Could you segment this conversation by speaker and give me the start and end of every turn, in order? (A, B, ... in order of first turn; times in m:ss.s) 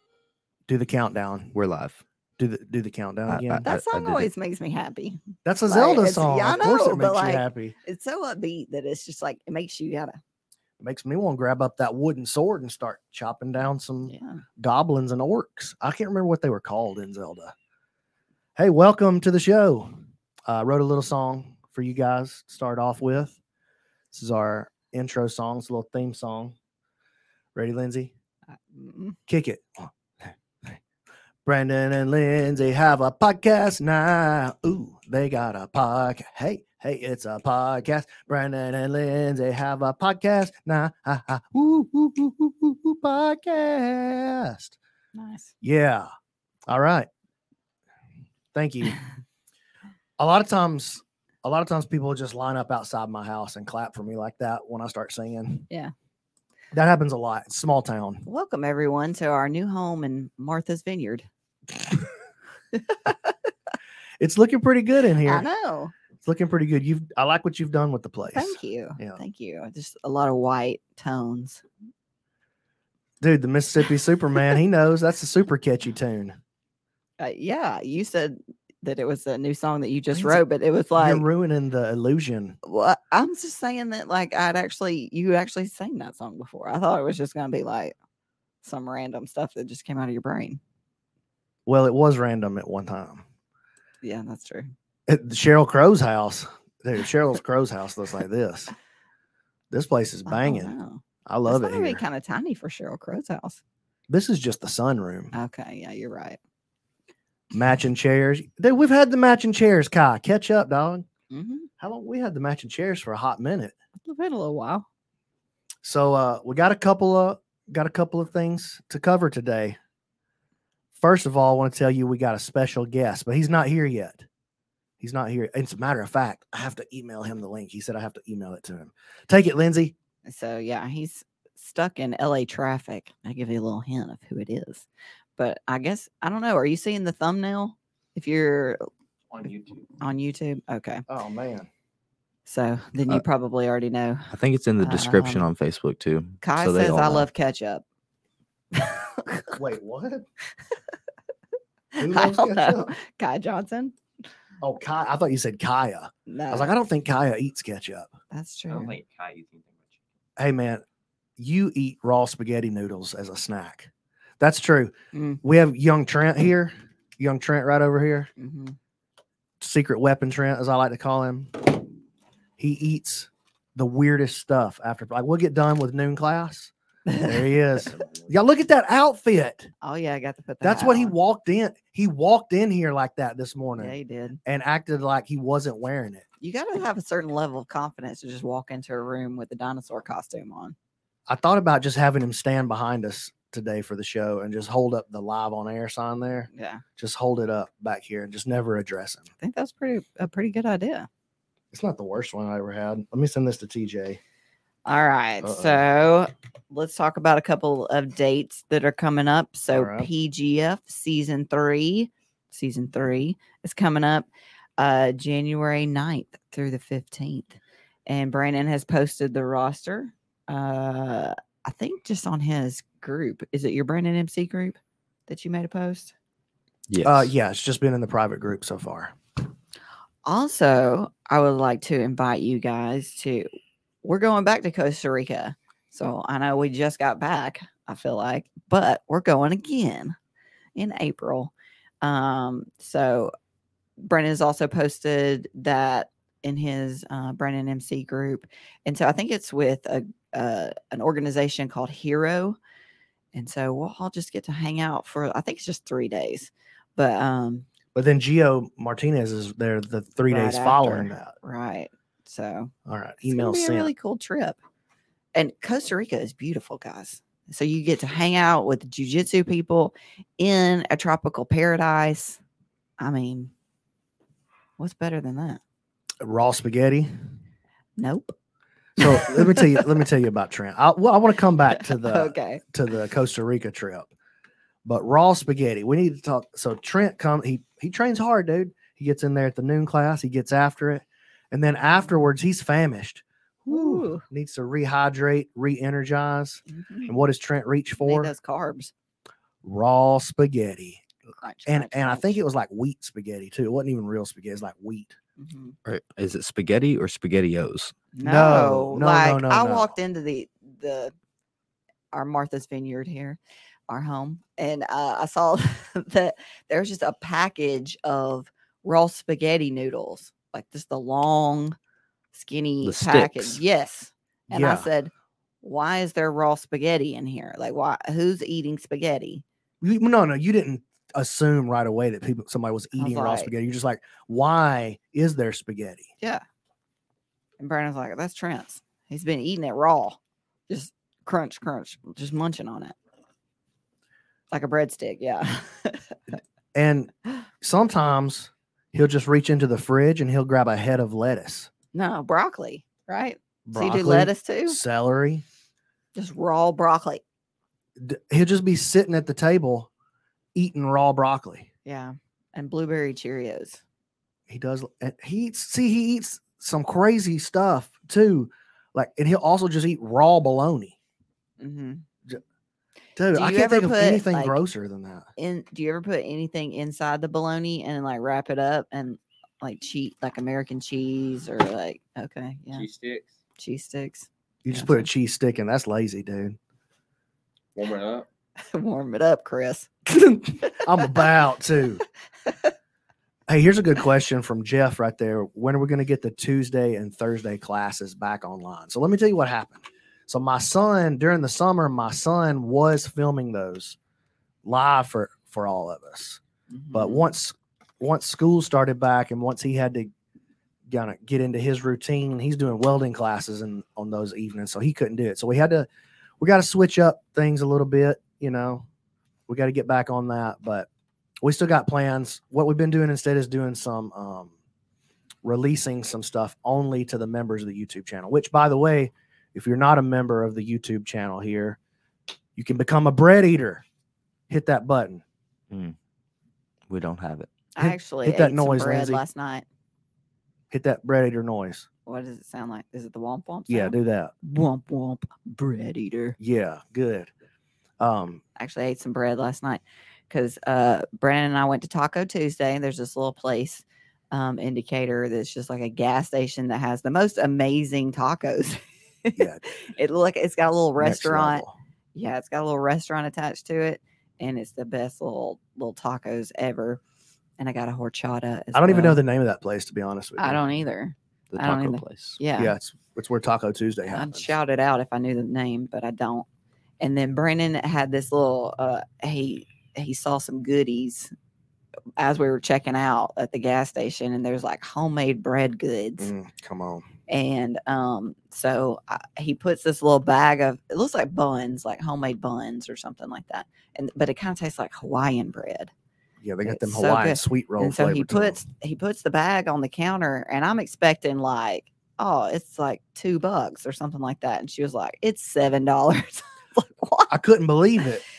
0:00.7-0:01.5 A
0:01.5-0:02.0 B
0:02.4-0:03.6 A
0:03.3-0:04.3 B
0:03.6-0:10.2 C
0:05.4-0:07.8 A
0:10.8-0:17.5 A
0:14.0-0:14.4 C
0:18.6-0:23.4 A
0:24.1-0:26.6 A
0:27.6-0:28.1 A
0:28.7-0:29.2 C
0:29.3-0:29.9 A
0:31.4-0:44.8 A
0:45.1-0:45.5 C
0:45.6-0:46.1 A
0:46.7-0:47.1 A
0:48.5-0:49.0 A
0:50.2-0:55.6 A
0:56.7-0:58.2 A
0:58.2-1:01.3 C
1:02.8-1:03.2 C
1:04.2-1:05.5 A
1:05.2-1:05.9 C
1:06.2-1:09.2 A
1:08.3-1:11.6 C
1:13.2-1:16.4 A
1:17.2-1:21.2 C
1:20.1-1:20.4 A
1:21.0-1:22.6 A
1:22.6-1:28.0 C
1:28.6-1:30.6 C
1:31.7-1:33.2 A
1:34.0-1:34.7 C
1:35.1-1:38.7 A
1:39.7-1:40.8 A
1:40.3-1:43.6 C
1:41.3-1:42.0 A
1:44.1-1:45.3 A
1:45.3-1:46.4 C
1:47.5-1:51.1 A
1:51.3-1:51.7 C
1:51.8-1:53.7 A
1:54.0-1:54.9 C
1:55.8-1:59.8 A
2:01.0-2:04.3 A
2:05.0-2:09.9 A
2:10.3-2:14.9 C
2:15.4-2:18.8 C
2:19.3-2:20.0 D
2:20.0-2:21.0 C
2:21.1-2:21.7 A
2:22.5-2:24.3 C
2:24.3-2:27.3 B
2:24.8-2:25.5 C
2:26.4-2:27.8 C
2:28.7-2:29.6 C
2:29.5-2:30.2 A
2:32.0-2:33.0 A
2:32.0-2:34.0 C
2:34.6-2:38.1 A
2:36.3-2:36.7 C
2:38.3-2:39.0 C
2:38.7-2:40.0 D
2:40.4-2:40.8 A
2:41.4-2:48.3 A
2:45.1-2:45.4 C
2:48.4-2:48.8 C
2:49.6-2:51.9 A
2:52.6-2:56.7 A
2:57.1-2:57.4 C
2:57.2-2:59.7 A
2:59.8-3:01.2 C
3:00.6-3:06.2 A
3:03.8-3:04.4 C
3:06.4-3:10.8 C
3:11.3-3:19.3 A
3:16.5-3:16.8 C
3:19.4-3:21.1 C
3:21.7-3:24.2 A
3:24.8-3:46.1 C
3:25.4-3:25.8 A
3:29.7-3:30.1 A
3:46.9-3:47.3 B
3:47.0-3:49.1 A
3:50.2-3:53.5 C
3:54.0-4:00.2 C
4:00.8-4:03.3 C
4:04.0-4:12.6 C
4:13.3-4:17.7 C
4:18.0-4:21.3 A
4:20.3-4:22.7 C
4:22.9-4:23.9 A
4:23.3-4:24.6 C
4:25.3-4:32.4 C
4:33.0-4:33.5 C
4:34.8-4:35.6 C
4:36.2-4:37.1 A
4:38.0-4:38.3 C
4:39.0-4:44.1 A
4:39.0-4:39.8 C
4:41.7-4:42.6 C
4:44.8-4:58.3 A
4:53.7-4:54.2 C
4:56.7-4:57.2 C
4:58.0-4:58.9 C
4:59.6-5:01.0 A
5:01.4-5:02.4 C
5:01.7-5:05.1 A
5:05.4-5:05.8 C
5:05.8-5:08.0 B
5:08.1-5:11.1 C
5:08.2-5:09.9 A
5:12.1-5:21.8 C
5:22.3-5:29.4 C
5:22.8-5:23.6 B
5:24.5-5:24.9 A
5:29.8-5:36.1 A
5:33.0-5:33.5 C
5:37.6-5:43.0 C
5:44.5-5:46.3 C
5:46.7-5:51.7 A
5:51.9-5:54.8 C
5:53.7-5:55.4 A
5:56.2-5:57.2 C
5:58.0-5:59.9 A
6:00.6-6:01.7 A
6:01.8-6:03.8 C
6:04.5-6:11.0 A
6:11.6-6:12.0 C
6:13.2-6:15.3 A
6:13.3-6:14.6 C
6:15.4-6:22.9 C
6:22.7-6:23.3 D
6:23.6-6:25.1 C
6:24.6-6:26.6 A
6:27.8-6:28.3 D
6:28.7-6:29.9 C
6:30.1-6:32.0 A
6:33.5-6:44.0 A
6:44.6-6:46.4 A
6:46.7-6:47.3 C
6:46.9-6:50.1 A
6:50.9-6:55.9 A
6:56.4-6:58.9 A
6:59.5-7:00.9 A
7:01.4-7:04.5 A
7:05.4-7:11.8 A
7:12.6-7:13.8 A
7:14.5-7:15.2 A
7:16.9-7:17.5 B
7:17.8-7:19.6 C
7:17.8-7:19.2 A
7:20.7-7:21.9 A
7:22.1-7:26.4 C
7:23.7-7:24.3 A
7:26.4-7:27.3 A
7:28.0-7:28.4 A
7:28.6-7:41.6 C
7:39.4-7:39.6 A
7:41.0-7:41.7 A
7:42.2-7:47.0 C
7:47.6-7:49.2 C
7:48.7-7:50.6 A
7:50.4-7:52.8 C
7:51.5-7:52.4 B
7:52.6-7:54.5 A
7:54.1-7:56.5 C
7:57.0-8:01.3 C
8:02.2-8:06.3 C
8:06.2-8:07.0 A
8:07.3-8:15.9 C
8:16.4-8:18.6 A
8:16.7-8:27.3 C
8:27.3-8:28.2 A